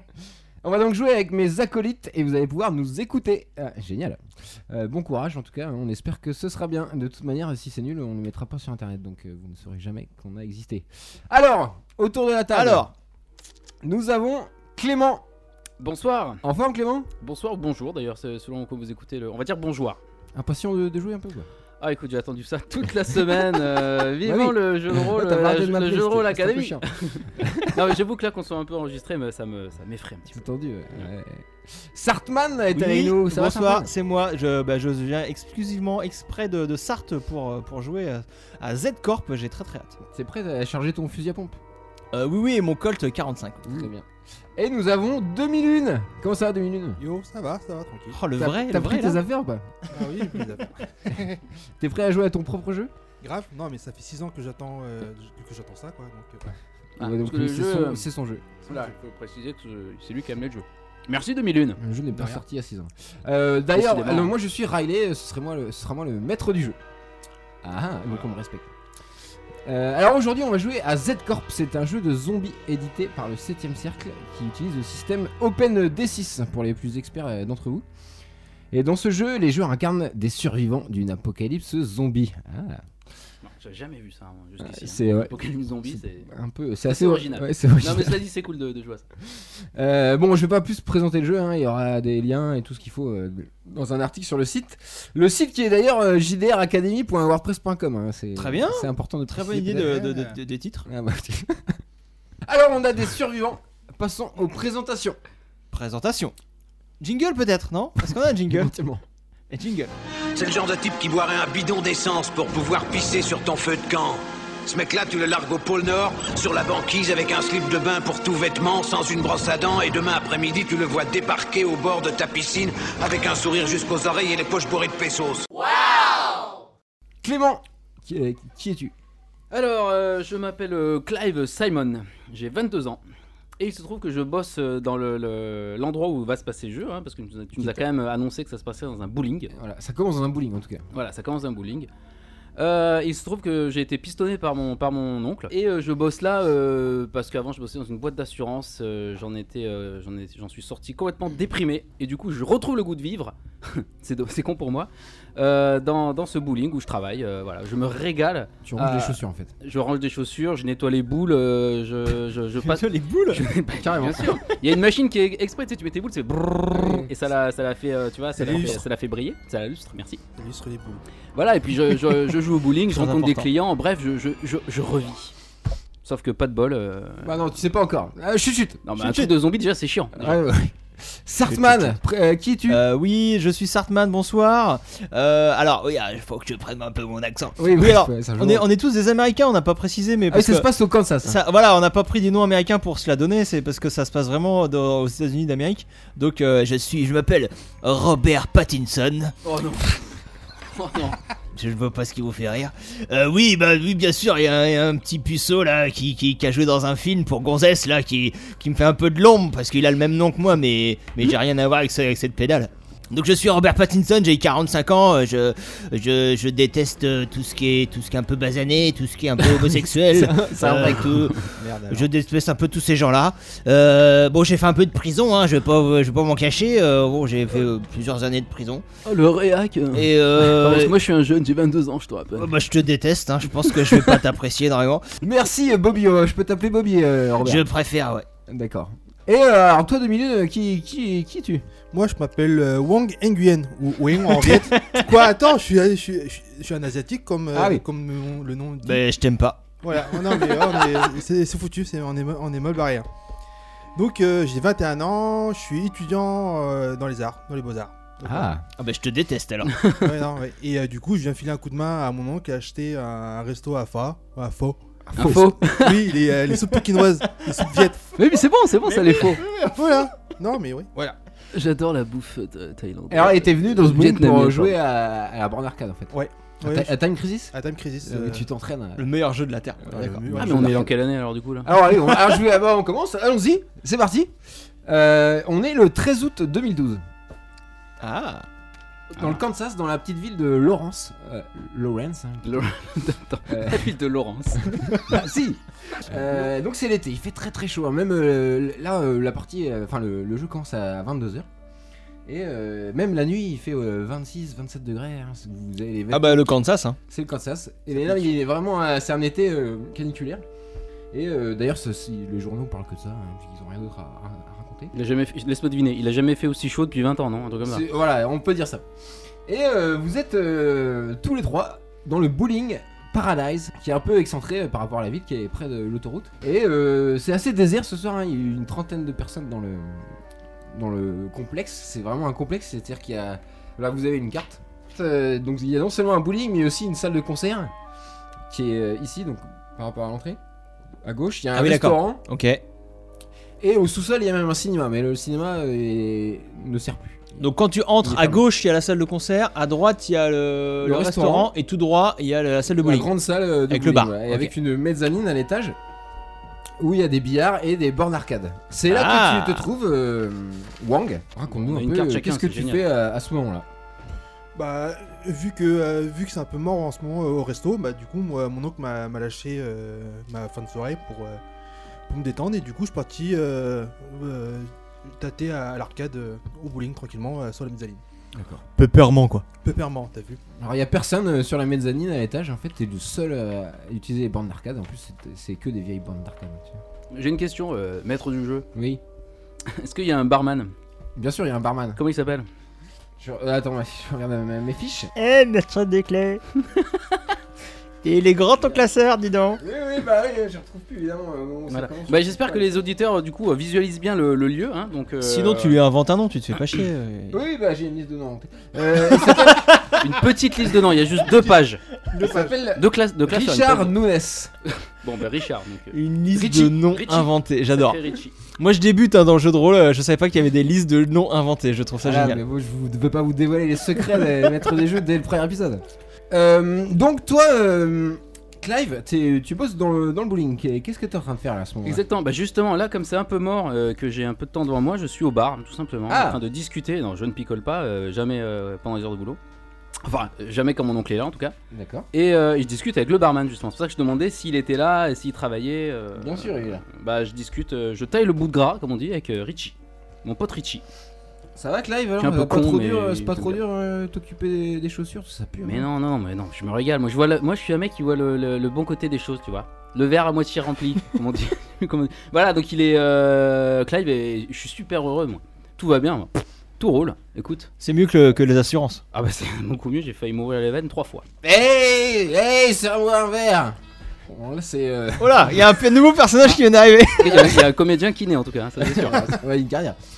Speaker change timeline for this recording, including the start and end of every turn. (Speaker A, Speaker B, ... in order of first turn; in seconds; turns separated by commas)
Speaker A: 0.6-12.9, Speaker B: 12.5-12.9, Speaker A: 13.8-15.2, Speaker C: 15.8-16.4, Speaker A: 16.4-17.1, Speaker C: 17.2-20.0, Speaker A: 20.3-21.5, Speaker C: 21.8-31.0, Speaker A: 24.2-27.8, Speaker A: 30.3-33.9, Speaker B: 32.7-40.0, Speaker A: 40.1-41.6, Speaker B: 42.1-43.9, Speaker A: 43.6-44.0, Speaker A: 44.6-47.0, Speaker D: 47.0-48.2, Speaker B: 48.1-49.2, Speaker A: 48.4-49.7, Speaker D: 49.9-51.4, Speaker A: 51.8-52.9, Speaker D: 53.2-56.5, Speaker C: 57.0-58.1, Speaker A: 57.0-58.5, Speaker C: 58.6-61.8, Speaker A: 61.8-66.8, Speaker D: 62.1-62.4, Speaker C: 63.7-64.3, Speaker A: 67.6-68.7, Speaker A: 69.7-77.8, Speaker A: 78.7-82.8, Speaker C: 83.4-86.2, Speaker A: 84.6-85.3, Speaker A: 85.8-88.2, Speaker C: 86.8-89.0, Speaker A: 89.3-100.1, Speaker B: 98.3-100.9, Speaker D: 100.0-100.3, Speaker A: 100.9-101.8, Speaker A: 102.5-105.2, Speaker B: 105.7-106.3, Speaker B: 107.0-108.7, Speaker A: 108.3-109.0, Speaker B: 109.5-109.9, Speaker E: 110.3-126.2, Speaker A: 127.2-128.9, Speaker C: 129.5-133.0, Speaker C: 133.6-139.5, Speaker A: 139.5-140.8, Speaker C: 140.9-141.9, Speaker C: 142.6-170.2, Speaker A: 158.6-159.5, Speaker B: 162.6-163.5, Speaker A: 163.8-164.4, Speaker A: 166.7-167.1, Speaker D: 168.3-168.8, Speaker D: 170.3-171.0, Speaker C: 171.3-175.3, Speaker B: 172.9-173.5, Speaker C: 176.0-177.4, Speaker A: 177.2-178.8, Speaker C: 178.8-180.4, Speaker B: 179.0-179.3, Speaker A: 180.1-182.8, Speaker C: 181.6-181.9, Speaker B: 182.7-190.7, Speaker A: 187.6-188.7, Speaker A: 190.3-191.4, Speaker B: 191.2-199.3, Speaker C: 199.4-201.2, Speaker B: 201.5-228.8, Speaker A: 219.6-221.3, Speaker D: 221.6-222.1, Speaker C: 229.0-232.5, Speaker B: 229.9-230.9, Speaker B: 232.3-235.1, Speaker C: 233.5-234.2, Speaker A: 235.2-237.7, Speaker B: 237.4-238.2, Speaker A: 238.5-241.6, Speaker D: 241.9-249.0, Speaker B: 244.3-245.1, Speaker A: 247.5-247.8, Speaker B: 248.8-250.5, Speaker D: 249.8-253.1, Speaker D: 253.9-258.5, Speaker A: 258.2-258.6, Speaker B: 258.8-259.8, Speaker C: 259.6-260.1, Speaker D: 259.9-268.1, Speaker A: 265.1-265.6, Speaker C: 265.1-266.1, Speaker C: 268.1-269.4, Speaker D: 268.9-271.2, Speaker B: 269.4-269.8, Speaker C: 271.5-274.8, Speaker A: 273.1-279.0, Speaker D: 276.1-277.0, Speaker D: 277.5-278.5, Speaker B: 279.0-280.2, Speaker D: 279.9-280.9, Speaker A: 279.9-280.9, Speaker C: 280.3-281.7, Speaker A: 281.6-284.3, Speaker A: 284.8-287.0, Speaker B: 288.0-288.4, Speaker A: 289.1-292.6, Speaker C: 292.4-295.2, Speaker A: 293.5-293.9, Speaker A: 294.9-301.5, Speaker A: 302.2-306.5, Speaker B: 306.1-307.0, Speaker A: 307.1-310.4, Speaker A: 311.1-314.9, Speaker C: 314.9-317.8, Speaker A: 317.6-318.8, Speaker A: 319.5-330.2, Speaker A: 330.7-337.7, Speaker A: 338.5-340.4, Speaker A: 341.0-342.2, Speaker B: 341.5-342.6, Speaker A: 343.6-347.4, Speaker B: 347.4-353.1, Speaker A: 348.0-348.4, Speaker A: 350.8-351.5, Speaker A: 352.8-355.8, Speaker B: 353.7-354.5, Speaker A: 356.8-363.6, Speaker B: 358.9-359.7, Speaker C: 361.5-362.8, Speaker D: 364.5-371.4, Speaker D: 372.1-378.0, Speaker A: 378.3-378.6, Speaker B: 378.8-379.5, Speaker D: 379.5-380.4, Speaker A: 380.6-386.8, Speaker C: 387.1-388.6, Speaker A: 388.7-389.0, Speaker C: 389.6-390.7, Speaker A: 391.1-392.0, Speaker C: 391.9-392.5, Speaker A: 393.2-395.1, Speaker B: 395.1-396.4, Speaker B: 398.0-399.6, Speaker A: 399.6-402.8, Speaker C: 401.7-405.8, Speaker B: 405.2-407.4, Speaker A: 407.3-409.8, Speaker B: 408.9-410.1, Speaker C: 410.0-411.8, Speaker D: 412.1-412.5, Speaker A: 412.1-414.5, Speaker C: 412.7-413.9, Speaker C: 414.6-416.0, Speaker B: 415.9-418.0, Speaker A: 416.3-416.7, Speaker C: 416.9-418.3, Speaker B: 418.6-422.4, Speaker A: 422.0-432.0, Speaker C: 431.8-439.4, Speaker A: 436.1-436.4, Speaker C: 440.0-441.5, Speaker A: 441.7-442.1, Speaker C: 442.1-450.8, Speaker A: 446.1-446.8, Speaker A: 451.6-455.9, Speaker C: 452.2-453.6, Speaker C: 455.6-467.7, Speaker B: 467.8-469.0, Speaker C: 469.1-471.2, Speaker A: 471.4-475.4, Speaker B: 475.2-477.6, Speaker C: 477.2-479.4, Speaker A: 478.9-480.0